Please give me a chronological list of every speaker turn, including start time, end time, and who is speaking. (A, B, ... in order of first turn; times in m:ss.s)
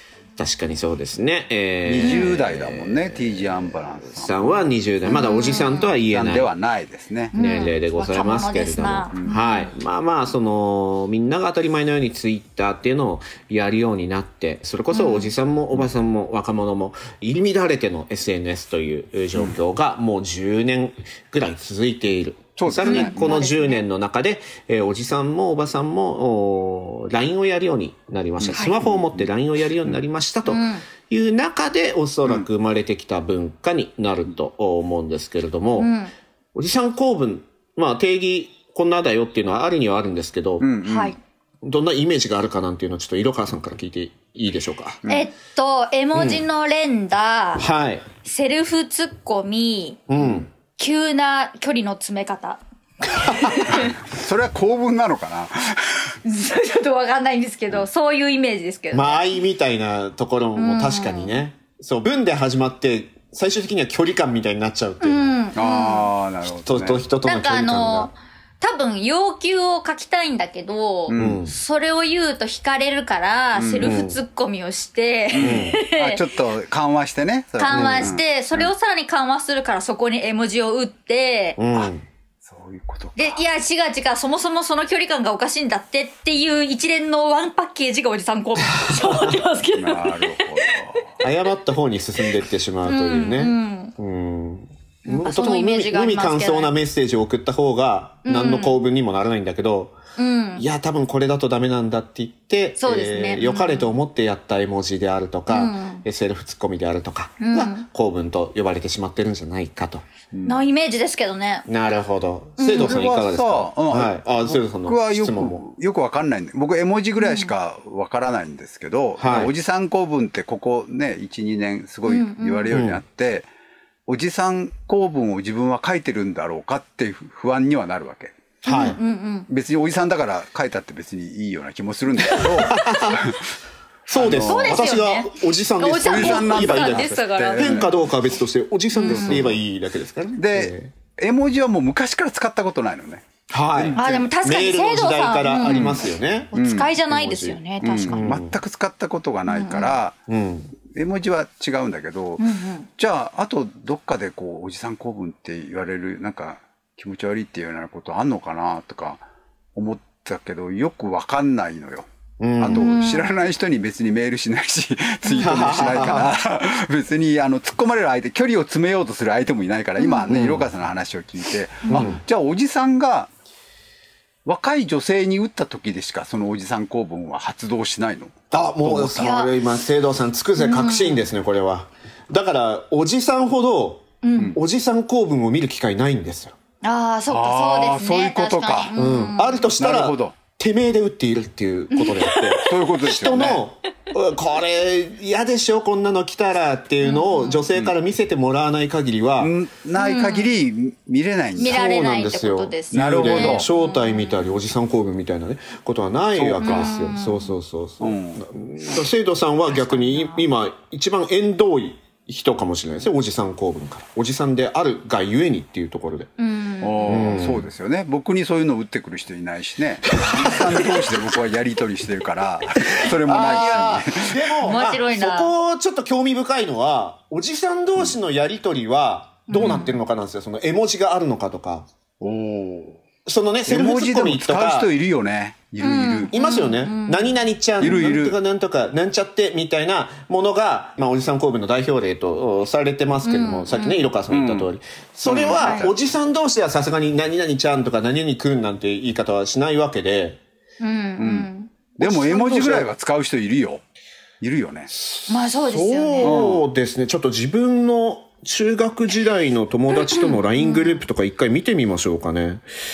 0:00.4-0:06.5 A
0:01.8-0:07.3 B
0:02.0-0:02.4 C
0:05.1-0:06.0 C
0:07.3-0:09.7 C
0:07.3-0:36.0 A
0:14.9-0:15.3 C
0:22.6-0:23.4 B
0:22.8-0:23.8 C
0:28.4-0:29.3 B
0:30.5-0:30.8 C
0:35.8-0:36.1 C
0:36.6-0:40.7 A
0:40.6-0:41.1 B
0:40.8-0:41.2 C
0:41.6-0:45.0 A
0:45.1-0:47.7 C
0:46.1-0:46.4 A
0:47.6-0:48.0 A
0:48.2-0:54.0 C
0:50.1-0:50.5 A
0:53.7-0:56.1 B
0:56.2-0:59.3 C
0:58.9-1:05.4 A
1:00.6-1:01.4 C
1:05.0-1:06.1 C
1:05.5-1:07.1 B
1:06.4-1:08.1 A
1:07.2-1:16.2 C
1:11.1-1:11.4 B
1:11.2-1:11.6 A
1:13.6-1:14.0 B
1:13.8-1:14.2 A
1:15.3-1:18.7 B
1:15.4-1:15.8 A
1:17.6-1:21.9 C
1:17.7-1:18.2 A
1:21.6-1:22.0 A
1:22.4-1:23.4 B
1:23.2-1:31.2 C
1:28.8-1:29.4 A
1:29.7-1:31.1 B
1:31.2-1:40.0 A
1:32.8-1:33.9 C
1:35.1-1:36.8 C
1:38.2-1:38.8 C
1:40.2-1:40.6 C
1:40.6-1:50.0 A
1:42.8-1:44.0 C
1:45.5-1:46.0 C
1:47.4-1:47.9 C
1:50.3-1:50.7 B
1:50.5-1:51.7 C
1:51.7-1:55.6 A
1:52.6-1:53.0 C
1:52.7-2:03.5 B
1:57.2-1:57.5 C
1:59.2-1:59.5 A
2:02.1-2:02.8 C
2:02.7-2:03.0 A
2:04.1-2:08.3 B
2:08.6-2:09.0 A
2:08.6-2:09.5 C
2:09.5-2:13.4 B
2:12.3-2:13.1 C
2:12.4-2:13.2 A
2:14.1-2:20.9 A
2:14.1-2:14.8 B
2:14.4-2:17.9 C
2:16.0-2:17.9 B
2:18.9-2:19.5 C
2:19.1-2:19.6 B
2:20.4-2:24.3 B
2:23.5-2:26.5 A
2:24.0-2:26.0 C
2:25.7-2:26.0 B
2:26.5-2:28.3 C
2:26.6-2:27.0 B
2:27.1-2:28.6 A
2:27.8-2:30.2 B
2:29.5-2:30.0 C
2:30.3-2:30.8 A
2:30.9-2:32.4 B
2:32.4-2:32.9 C
2:33.0-2:39.2 B
2:39.8-2:42.1 B
2:42.4-2:42.9 A
2:42.6-2:53.3 B
2:42.7-2:43.4 C
2:45.3-2:46.2 C
2:45.4-2:46.3 A
2:50.0-2:50.5 C
2:50.3-2:50.7 A
2:51.9-2:52.1 C
2:51.9-2:52.2 A
2:54.4-2:59.3 B
2:58.5-3:06.6 A
2:59.2-2:59.5 C
3:00.6-3:01.3 C
3:04.2-3:04.6 C
3:06.8-3:09.7 C
3:07.3-3:08.9 B
3:08.9-3:19.5 A
3:09.8-3:10.4 B
3:11.9-3:12.7 C
3:12.6-3:13.6 B
3:17.0-3:17.7 C
3:19.4-3:21.8 B
3:20.0-3:20.5 C
3:21.6-3:36.3 A
3:21.6-3:24.5 C
3:22.9-3:23.7 B
3:26.3-3:27.0 B
3:26.6-3:27.5 C
3:28.0-3:28.4 B
3:29.7-3:30.5 C
3:36.4-3:37.4 C
3:36.8-3:44.5 B
3:37.0-3:37.7 A
3:40.2-3:41.0 A
3:43.1-3:51.9 A
3:43.3-3:43.9 C
3:44.6-3:45.5 C
3:49.5-3:50.0 C
3:52.2-3:53.0 B
3:53.2-3:54.9 A
3:53.7-3:56.3 B
3:55.8-3:58.0 C
3:56.3-4:10.4 A
3:57.8-3:58.4 B
4:03.2-4:04.1 C
4:04.3-4:04.7 B
4:05.2-4:06.0 B
4:05.6-4:05.9 C
4:10.8-4:12.8 C
4:11.2-4:13.8 B
4:12.0-4:12.9 A
4:14.4-4:14.9 B
4:14.9-4:22.6 A
4:15.3-4:16.5 C
4:16.2-4:16.7 B
4:20.0-4:21.0 C